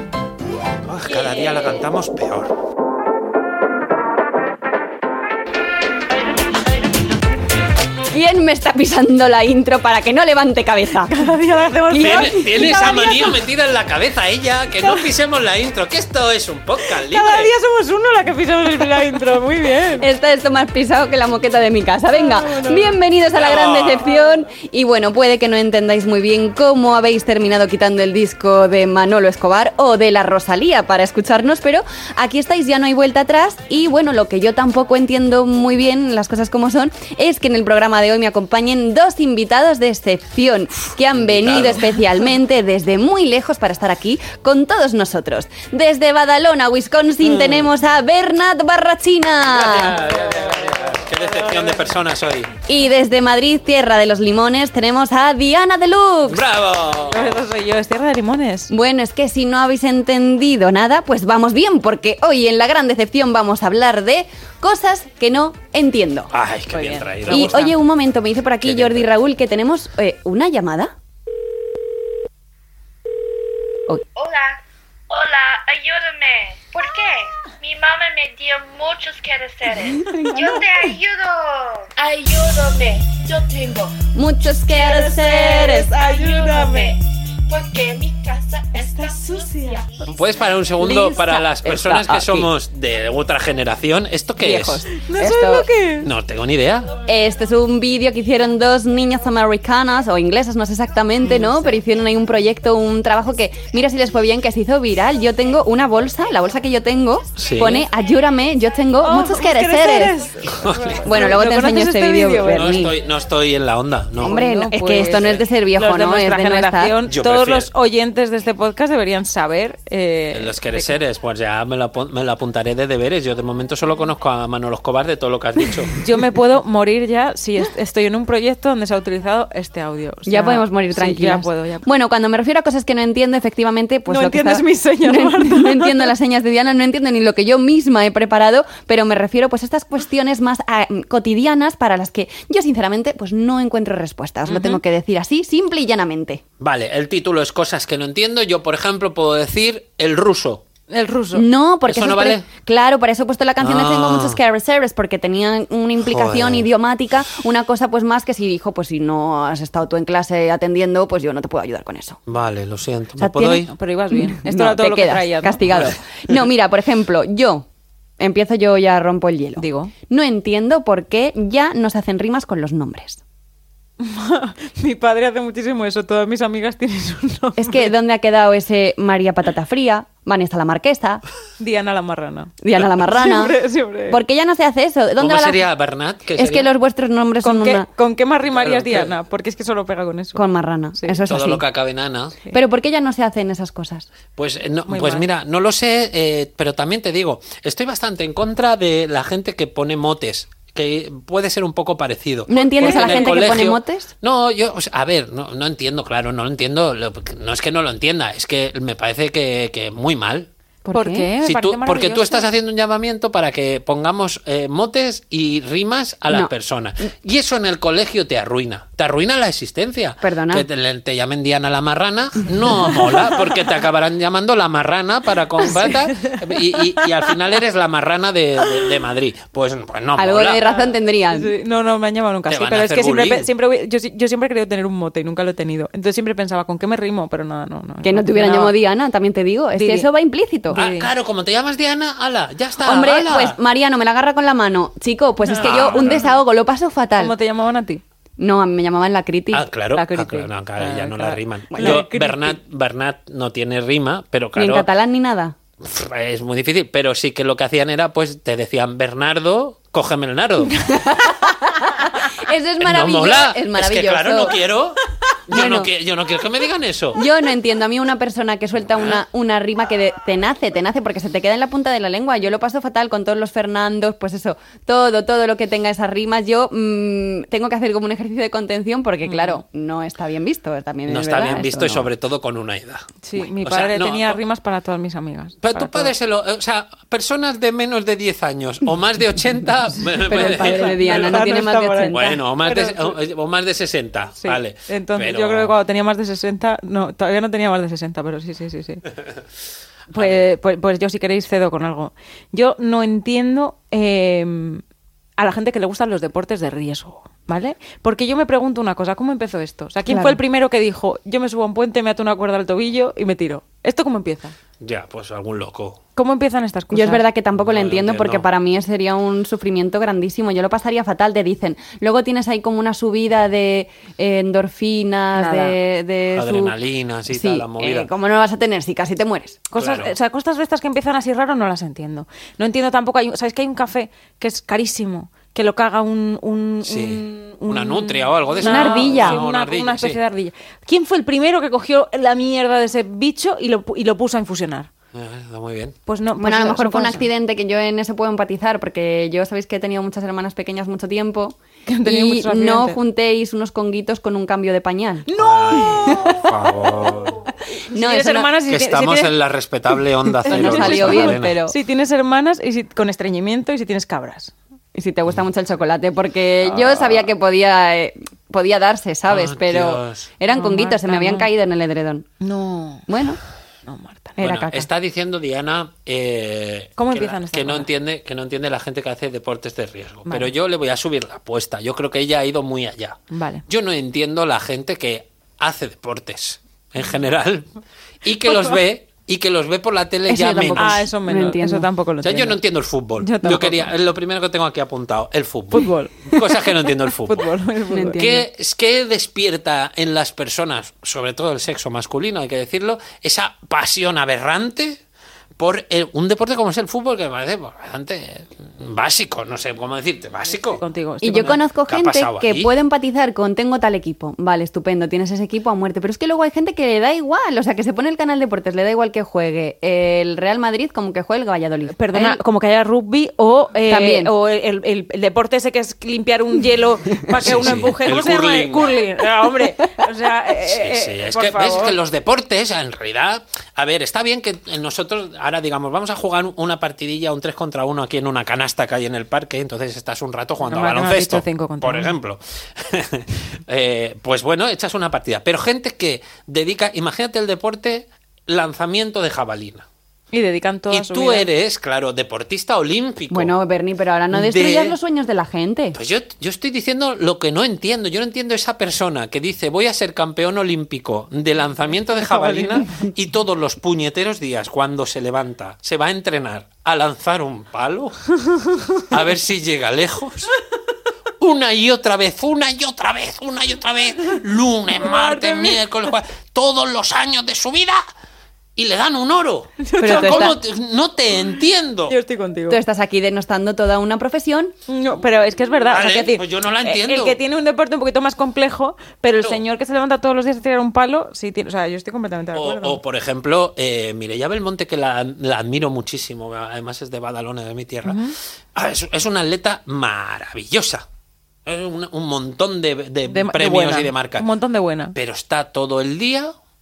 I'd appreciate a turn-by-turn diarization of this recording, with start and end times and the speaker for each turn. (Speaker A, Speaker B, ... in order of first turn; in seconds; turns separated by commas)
Speaker A: 0.8-2.5, Speaker B: 8.1-11.1, Speaker C: 11.1-13.4, Speaker B: 11.9-12.6, Speaker A: 12.0-17.5, Speaker C: 16.9-20.1, Speaker B: 20.0-50.0, Speaker C: 22.1-22.9, Speaker A: 23.3-24.1, Speaker A: 41.1-42.0, Speaker A: 47.2-47.7, Speaker A: 49.4-52.5, Speaker C: 50.0-51.8, Speaker B: 52.7-56.4, Speaker A: 56.2-57.4, Speaker C: 57.1-58.7, Speaker B: 58.7-66.3, Speaker A: 66.3-67.6, Speaker C: 66.7-67.7, Speaker B: 67.2-70.9, Speaker A: 68.6-69.1, Speaker D: 74.1-84.0, Speaker B: 80.0-80.3, Speaker C: 80.1-80.6, Speaker B: 84.1-85.9, Speaker D: 84.6-90.1, Speaker C: 85.5-87.0, Speaker C: 88.7-90.0, Speaker A: 90.1-94.8, Speaker B: 90.8-92.5, Speaker B: 94.4-95.7, Speaker C: 95.0-96.1, Speaker A: 96.0-96.9, Speaker B: 97.0-110.1, Speaker C: 101.2-101.7, Speaker A: 107.3-107.9, Speaker C: 109.0-112.8, Speaker A: 110.5-111.2, Speaker B: 111.0-112.9, Speaker A: 112.5-114.4, Speaker B: 114.2-116.9, Speaker C: 114.2-120.9, Speaker A: 117.0-117.7, Speaker A: 120.3-126.0, Speaker C: 126.0-131.9, Speaker B: 130.3-146.4, Speaker C: 134.1-136.1, Speaker C: 144.5-144.8, Speaker A: 146.6-150.6, Speaker C: 150.9-151.4, Speaker B: 151.3-162.2, Speaker A: 151.9-152.4, Speaker A: 153.6-154.4, Speaker A: 156.0-156.7, Speaker A: 162.3-163.7, Speaker B: 163.2-167.7, Speaker C: 163.7-165.7, Speaker A: 165.7-165.9, Speaker B: 168.2-173.2, Speaker C: 169.6-169.9, Speaker C: 174.0-177.9, Speaker B: 177.6-181.2, Speaker C: 181.6-182.5, Speaker B: 182.6-183.6, Speaker C: 183.1-184.2, Speaker B: 184.1-185.6, Speaker A: 185.2-186.7, Speaker B: 186.3-187.9, Speaker C: 187.4-190.4, Speaker A: 188.5-189.1, Speaker B: 190.3-191.6, Speaker A: 191.3-192.4, Speaker B: 192.5-194.1, Speaker A: 194.3-210.5, Speaker C: 194.9-195.2, Speaker B: 202.5-204.1, Speaker C: 202.8-203.4, Speaker B: 210.8-211.3, Speaker C: 210.9-212.5, Speaker A: 211.4-230.6, Speaker B: 220.2-220.7, Speaker B: 230.2-231.5, Speaker C: 230.7-238.7, Speaker A: 232.5-233.5, Speaker B: 238.0-240.8, Speaker C: 239.7-240.1, Speaker C: 240.7-241.1, Speaker A: 240.7-243.6, Speaker B: 242.8-247.3, Speaker C: 245.4-246.2, Speaker A: 245.6-246.3, Speaker C: 247.2-248.0, Speaker B: 248.4-250.5, Speaker A: 249.5-254.9, Speaker C: 250.8-252.6, Speaker B: 251.7-252.0, Speaker B: 254.6-255.5, Speaker A: 255.8-260.9, Speaker B: 260.9-264.6, Speaker A: 262.8-267.2, Speaker B: 265.5-265.9, Speaker B: 267.1-282.1, Speaker C: 279.2-279.6, Speaker A: 281.1-284.4, Speaker C: 283.2-286.1, Speaker A: 285.6-291.4, Speaker B: 290.2-292.4, Speaker C: 290.3-293.1, Speaker A: 292.1-295.7, Speaker C: 294.4-299.0, Speaker C: 300.1-304.8, Speaker A: 300.1-300.4, Speaker C: 305.4-314.5, Speaker B: 310.1-310.4, Speaker A: 314.8-316.0, Speaker C: 316.1-317.2, Speaker B: 316.9-326.8, Speaker A: 317.6-318.4, Speaker C: 325.4-325.8, Speaker A: 326.3-328.1, Speaker B: 327.3-329.6, Speaker C: 329.7-344.9, Speaker A: 329.8-330.1, Speaker A: 336.8-340.2, Speaker B: 338.6-339.4, Speaker A: 345.1-346.0, Speaker C: 346.1-347.3, Speaker B: 346.4-356.2, Speaker C: 351.9-353.0, Speaker C: 355.3-357.1, Speaker A: 355.4-357.4, Speaker B: 357.9-358.5, Speaker C: 357.9-359.3, Speaker A: 358.7-361.5, Speaker C: 360.4-364.5, Speaker B: 360.5-361.7, Speaker B: 364.9-372.3, Speaker C: 366.6-367.3, Speaker A: 369.3-370.3, Speaker C: 370.5-371.5, Speaker C: 372.4-373.1, Speaker B: 373.1-373.4, Speaker C: 373.9-374.6, Speaker B: 374.4-374.9, Speaker A: 374.4-387.7, Speaker C: 377.0-377.9, Speaker C: 383.3-383.6, Speaker A: 388.2-391.0, Speaker B: 390.3-391.9, Speaker C: 390.8-392.6, Speaker A: 392.2-397.5, Speaker C: 393.2-393.9, Speaker C: 395.7-396.3, Speaker C: 397.2-398.4, Speaker B: 397.9-398.4, Speaker A: 398.1-405.0, Speaker A: 405.6-410.8, Speaker C: 410.7-411.6, Speaker B: 411.2-422.4, Speaker A: 411.4-412.7, Speaker C: 421.9-432.0, Speaker B: 423.9-424.3, Speaker A: 427.4-428.9, Speaker A: 430.6-449.9, Speaker C: 440.6-442.1, Speaker C: 450.3-451.5, Speaker A: 450.9-453.5, Speaker B: 453.3-456.0, Speaker A: 454.3-455.0, Speaker A: 455.9-468.3, Speaker C: 462.2-462.9, Speaker A: 468.9-470.5, Speaker A: 471.4-478.0, Speaker C: 475.0-475.8, Speaker A: 478.8-482.2, Speaker C: 479.8-480.6, Speaker B: 480.0-480.6, Speaker C: 482.1-482.8, Speaker B: 482.7-484.7, Speaker C: 484.9-493.0, Speaker A: 485.9-487.4, Speaker A: 492.5-498.2, Speaker C: 498.0-498.3, Speaker A: 498.7-501.1, Speaker A: 501.6-504.5, Speaker C: 503.3-505.1, Speaker A: 505.1-506.5